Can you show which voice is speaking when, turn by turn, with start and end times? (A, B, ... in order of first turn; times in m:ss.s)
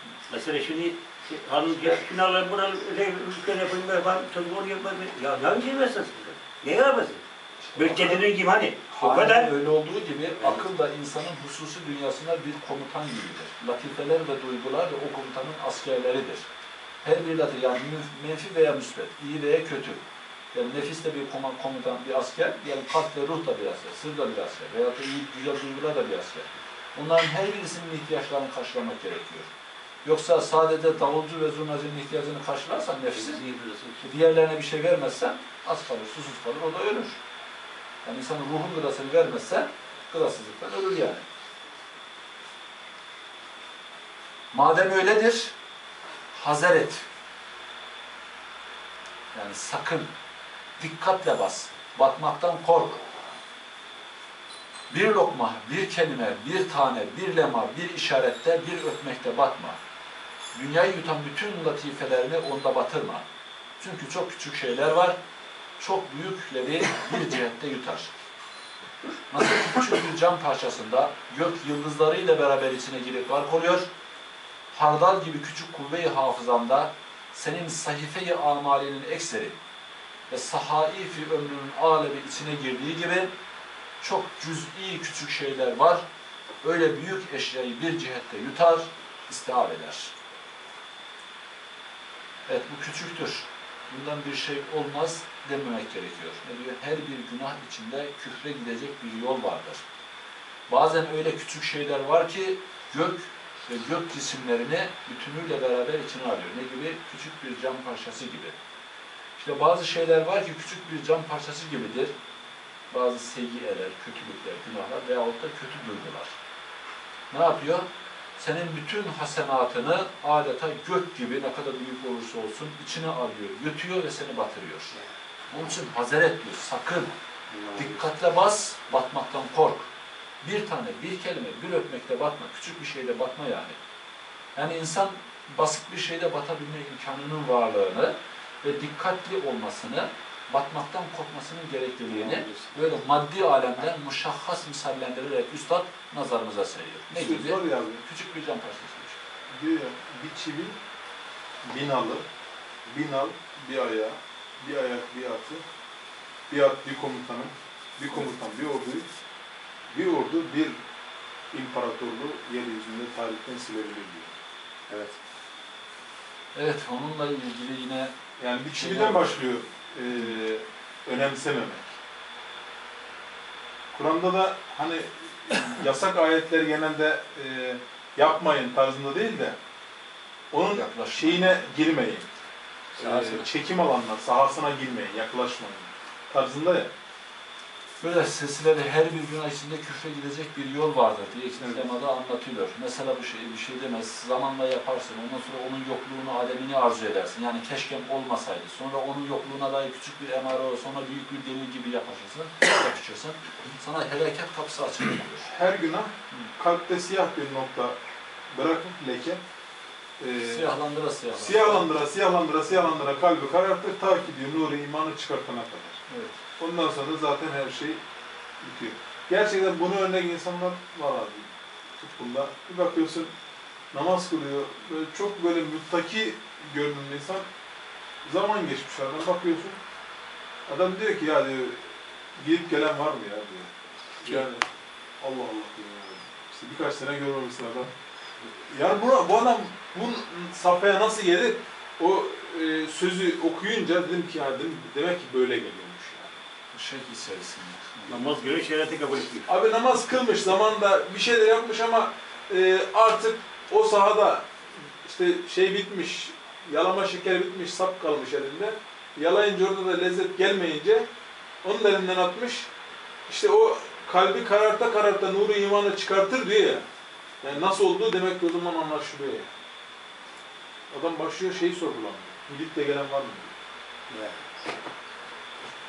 0:00.3-0:07.2 A
0:07.7-0:08.2 B
0:07.8-0:09.5 A
0:08.9-0:16.5 B
0:17.0-0:20.0 B
0:20.5-0:29.5 B
0:30.0-0:33.4 B
0:33.1-0:34.0 A
0:34.0-0:37.2 B
0:38.0-0:41.2 B
0:44.5-0:45.5 B
0:46.3-0:47.0 B
0:49.3-0:50.1 B
0:50.8-0:53.0 B
0:54.9-0:59.8 B
1:00.5-1:03.2 B
1:03.8-1:05.2 B
1:05.8-1:08.1 B
1:09.3-1:13.9 B
1:14.7-1:19.6 B
1:20.3-1:23.3 B
1:24.0-1:26.0 B
1:26.6-1:30.1 B
1:32.5-1:39.8 B
1:40.7-1:48.5 B
1:49.4-1:52.1 B
1:52.9-1:56.4 B
1:57.3-2:05.0 B
2:05.5-2:07.1 B
2:07.5-2:08.0 A
2:07.7-2:09.9 B
2:10.4-2:13.8 B
2:14.5-2:29.2 B
2:22.1-2:22.9 A
2:27.1-2:28.0 C
2:29.5-2:30.8 C
2:31.6-2:32.2 C
2:32.8-2:35.6 C
2:36.5-2:39.1 C
2:39.9-2:40.8 C
2:41.5-2:44.3 C
2:46.5-2:48.1 B
2:48.4-2:51.9 C
2:48.7-2:49.4 B
2:53.9-2:59.6 C
3:00.5-3:02.3 C
3:00.7-3:01.7 B
3:03.0-3:06.9 C
3:03.0-3:03.4 B
3:08.0-3:25.5 B
3:11.6-3:11.8 C
3:25.5-3:28.0 C
3:28.5-3:29.4 C
3:30.2-3:30.8 C
3:30.4-3:32.0 B
3:31.3-3:36.0 C
3:36.1-3:36.4 B
3:36.6-3:38.0 C
3:38.6-3:43.3 C
3:43.9-3:47.5 C
3:48.2-3:49.8 C
3:50.7-3:53.7 C
3:54.2-3:54.6 C
3:55.2-3:57.9 C
3:58.6-4:06.4 C
4:06.7-4:08.2 B
4:08.1-4:09.5 A
4:09.5-4:21.1 C
4:21.6-4:22.7 C
4:23.3-4:26.8 C
4:27.4-4:29.5 C
4:30.9-4:33.5 C
4:34.1-4:34.4 A